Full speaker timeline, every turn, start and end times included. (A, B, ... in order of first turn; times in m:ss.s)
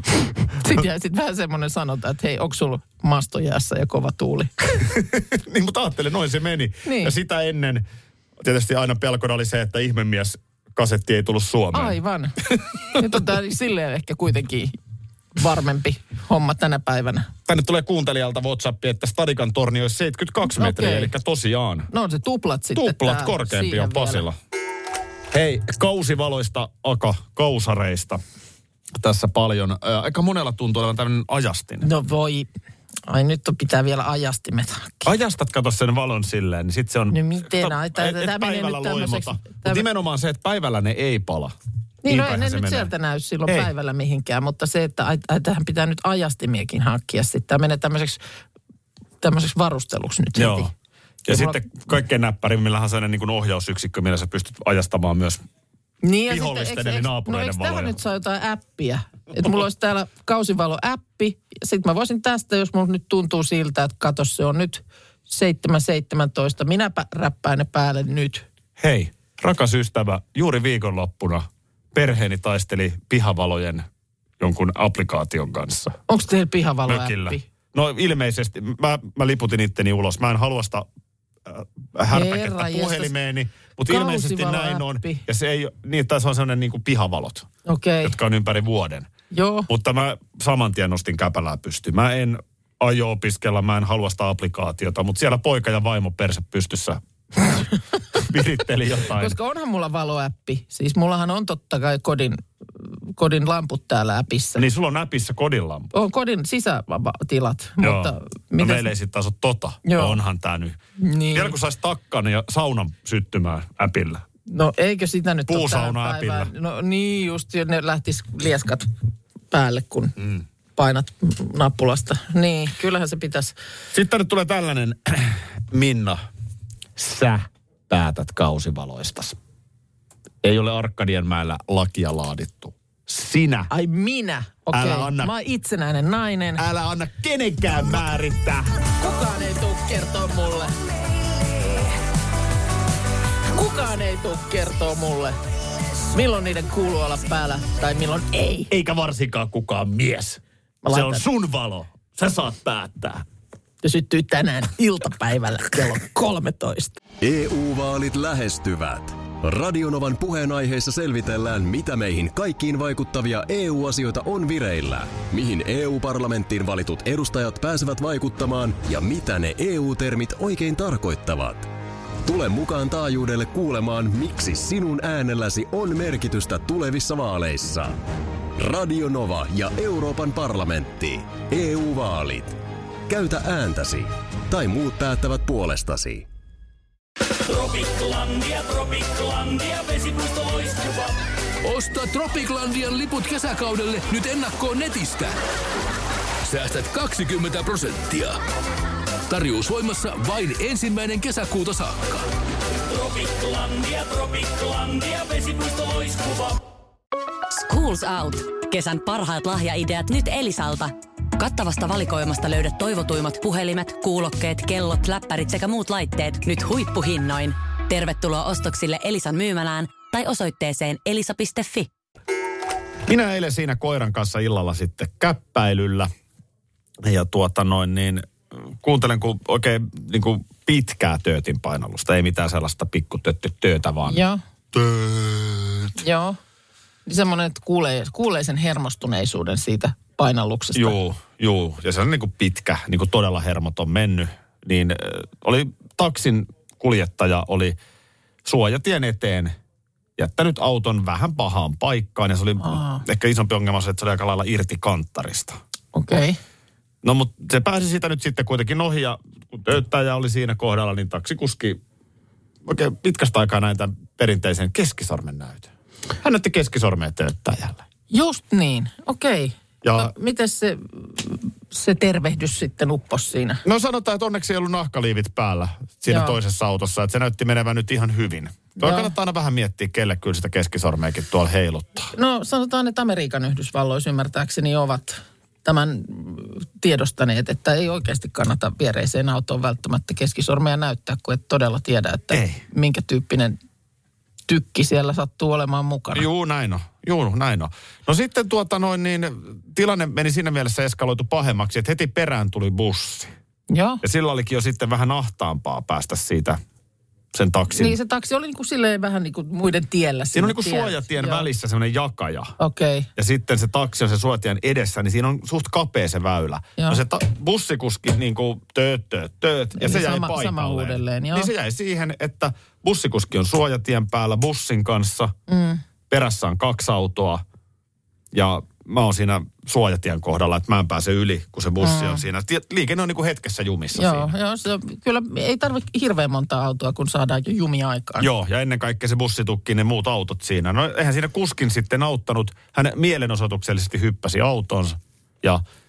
0:00.6-0:04.5 A
0:04.8-0:07.8 B
0:06.8-0:07.1 A
0:08.4-0:12.0 B
0:11.7-0:14.8 A
0:12.5-0:13.1 B
0:15.4-0:17.3 A
0:17.5-0:21.9 B
0:20.5-0:21.1 A
0:21.9-0:24.2 A
0:22.8-0:24.4 B
0:25.3-0:28.2 B
0:29.0-0:31.9 B
0:31.8-0:32.5 A
0:33.1-0:35.1 A
0:35.0-0:41.5 B
0:37.1-0:39.8 A
0:42.0-0:48.2 A
0:42.0-0:42.9 B
0:49.2-0:50.7 A
0:50.4-0:50.7 B
0:51.2-0:55.4 B
0:51.3-0:51.6 A
0:56.0-1:08.4 A
0:56.3-0:58.0 B
1:08.8-1:13.9 B
1:14.4-1:16.0 B
1:16.1-1:17.4 A
1:16.9-1:20.9 B
1:21.5-1:27.5 B
1:22.1-1:23.1 A
1:23.9-1:25.2 A
1:27.6-1:28.1 A
1:28.0-1:29.1 B
1:29.3-1:29.7 A
1:29.7-1:37.0 B
1:38.1-1:39.4 B
1:39.1-1:44.6 A
1:44.6-1:45.9 B
1:45.9-1:48.9 A
1:47.8-1:50.8 B
1:49.8-1:50.2 A
1:51.0-1:51.6 A
1:51.3-1:54.2 B
1:54.5-1:58.9 A
1:55.5-1:56.5 B
1:59.5-2:00.1 A
2:00.8-2:03.5 A
2:03.9-2:06.2 B
2:07.0-2:09.4 B
2:10.4-2:13.7 B
2:13.7-2:16.6 A
2:14.7-2:15.3 B
2:16.6-2:18.8 B
2:19.0-2:20.8 A
2:21.5-2:21.9 A
2:23.5-2:25.4 A
2:26.1-2:28.7 A
2:28.7-2:33.2 B
2:30.8-2:31.2 A
2:33.8-2:37.0 A
2:37.2-2:51.7 C
2:52.2-2:58.0 C
2:58.6-3:06.3 C
3:07.4-3:15.4 D
3:16.4-3:18.4 D
3:19.3-3:22.2 D
3:22.8-3:26.6 D
3:27.5-3:41.9 E
3:43.1-3:46.1 B
3:47.0-3:54.2 B
3:54.0-3:54.4 A
3:54.7-3:56.0 B
3:56.0-3:56.4 A
3:57.0-4:01.0 A
4:00.7-4:07.8 B
4:08.4-4:09.5 B
4:10.2-4:15.6 B
4:12.6-4:13.0 A
4:15.9-4:16.4 A
4:17.0-4:21.8 B
4:22.7-4:27.8 B
4:28.1-4:33.6 A
4:29.8-4:30.1 B
4:33.6-4:42.1 B
4:36.1-4:36.4 A
4:38.8-4:39.1 A
4:42.1-4:53.6 A
4:52.3-4:52.6 B
4:54.5-4:56.2 A
4:56.2-5:03.3 B
5:03.7-5:04.0 A
5:04.0-5:06.6 B
5:07.3-5:08.0 B
5:07.7-5:11.5 A
5:10.3-5:12.5 B
5:12.6-5:13.1 A
5:13.2-5:25.3 B
5:19.8-5:21.5 A
5:25.5-5:25.8 A
5:26.1-5:27.4 B
5:28.3-5:34.3 B
5:31.8-5:32.2 A
5:34.0-5:38.3 A
5:38.2-5:45.6 B